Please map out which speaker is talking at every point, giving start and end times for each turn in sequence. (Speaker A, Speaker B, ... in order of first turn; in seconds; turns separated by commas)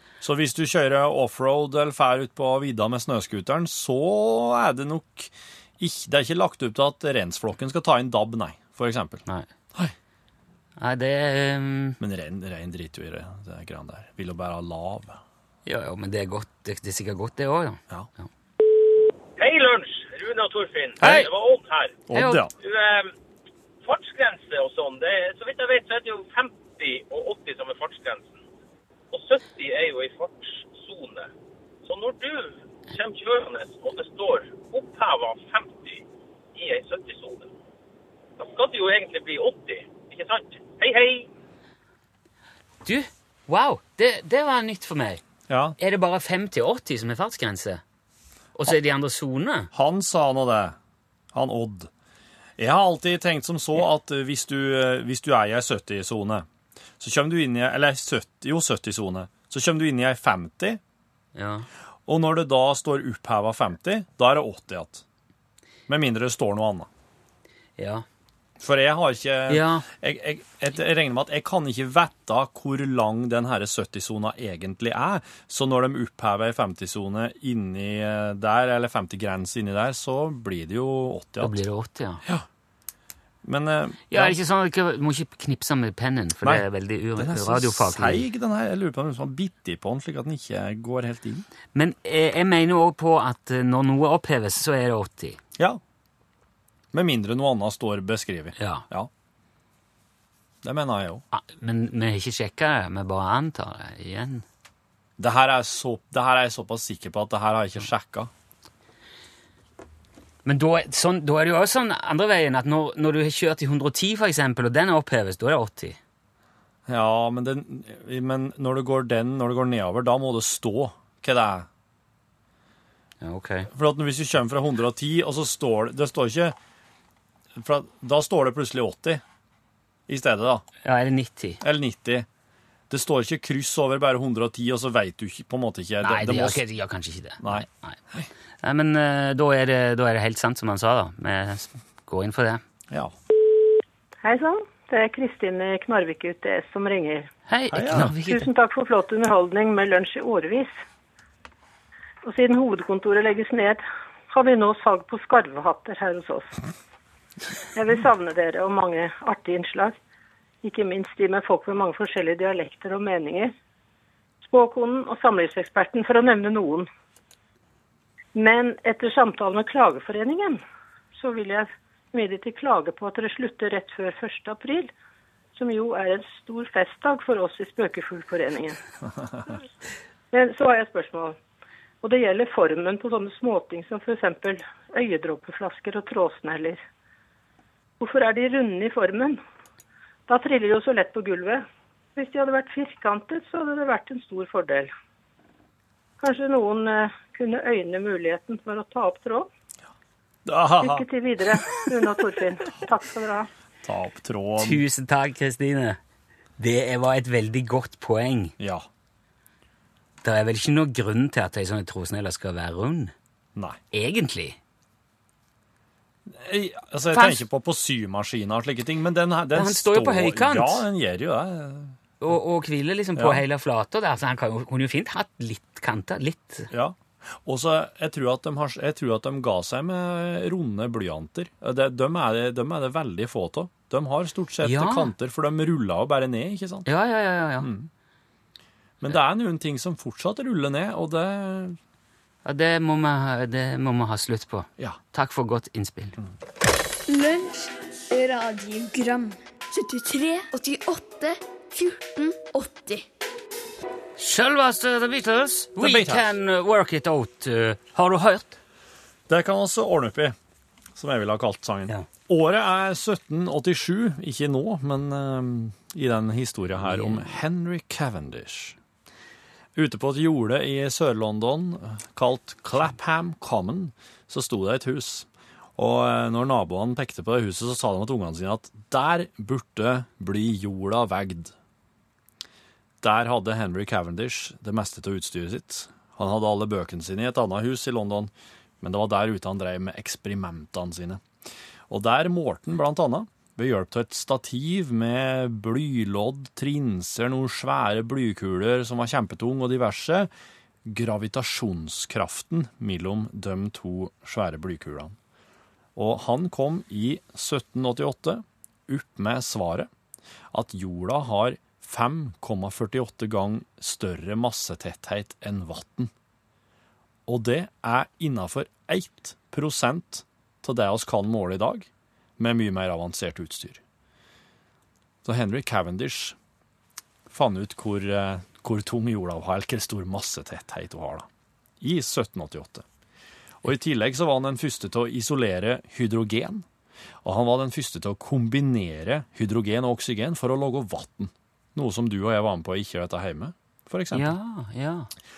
Speaker A: 0.2-9.9, Speaker B: 10.8-12.0, Speaker A: 12.0-15.2, Speaker B: 15.7-18.3, Speaker C: 19.4-22.1, Speaker A: 21.0-21.3, Speaker B: 21.0-21.3, Speaker A: 22.1-22.5, Speaker B: 22.1-22.4, Speaker C: 22.6-23.1, Speaker C: 23.8-28.4, Speaker C: 29.1-31.3, Speaker C: 31.9-36.0, Speaker C: 36.5-37.5, Speaker C: 38.4-41.3, Speaker B: 42.8-45.2, Speaker A: 45.5-45.8, Speaker B: 45.8-47.8, Speaker B: 48.6-49.7, Speaker A: 49.7-50.8, Speaker A: 51.3-51.9, Speaker A: 52.6-56.5, Speaker A: 57.0-60.8, Speaker B: 61.4-61.7, Speaker A: 62.1-65.0, Speaker A: 65.9-66.9, Speaker B: 67.8-68.0, Speaker A: 68.6-81.6, Speaker B: 69.5-69.9, Speaker B: 81.4-82.2, Speaker A: 83.4-84.4, Speaker B: 84.1-88.2, Speaker A: 86.4-91.5, Speaker B: 91.7-95.4, Speaker A: 96.9-99.1, Speaker B: 98.6-98.8, Speaker A: 100.6-101.2, Speaker B: 101.3-104.5, Speaker A: 105.2-108.3, Speaker B: 110.5-116.0, Speaker A: 116.9-121.7, Speaker B: 123.2-123.7, Speaker A: 123.7-126.5, Speaker A: 127.6-129.2, Speaker A: 130.1-130.6, Speaker B: 130.8-131.6, Speaker A: 131.6-132.3, Speaker A: 132.9-136.6, Speaker B: 136.0-138.0, Speaker A: 137.4-138.3, Speaker B: 138.6-142.6, Speaker D: 144.2-147.3, Speaker B: 147.5-148.5, Speaker A: 147.7-148.1, Speaker D: 148.2-150.8, Speaker D: 152.2-156.6, Speaker D: 157.8-160.0, Speaker D: 160.6-163.6, Speaker D: 164.4-166.9, Speaker D: 168.3-170.6, Speaker D: 171.2-174.9, Speaker D: 175.6-178.8, Speaker D: 180.3-181.4, Speaker D: 182.0-186.8, Speaker D: 188.0-189.4, Speaker D: 190.3-194.9, Speaker D: 196.2-199.5, Speaker A: 200.5-201.1, Speaker D: 200.8-203.5, Speaker A: 203.8-204.8, Speaker B: 204.6-206.0, Speaker B: 206.6-208.5, Speaker A: 208.6-208.9, Speaker B: 210.2-213.1, Speaker B: 213.9-214.6, Speaker A: 216.3-222.0, Speaker B: 217.1-217.4, Speaker B: 219.6-220.9, Speaker B: 222.2-226.7, Speaker A: 223.2-223.4, Speaker A: 226.7-236.9, Speaker B: 234.6-235.1, Speaker B: 236.9-237.7, Speaker A: 237.6-237.9, Speaker A: 239.0-241.8, Speaker B: 242.4-246.2, Speaker E: 247.1-253.1, Speaker B: 254.2-258.6, Speaker A: 255.8-256.3, Speaker A: 259.3-260.4, Speaker A: 260.9-268.8, Speaker B: 266.8-267.3, Speaker A: 269.8-281.5, Speaker A: 283.0-291.2, Speaker A: 291.9-300.3, Speaker A: 300.9-305.1, Speaker A: 306.0-309.9, Speaker A: 310.5-316.1, Speaker A: 317.3-323.8, Speaker A: 325.2-326.4, Speaker A: 327.3-331.3, Speaker A: 331.8-332.9, Speaker A: 333.6-336.7, Speaker A: 337.2-344.4, Speaker B: 344.1-345.1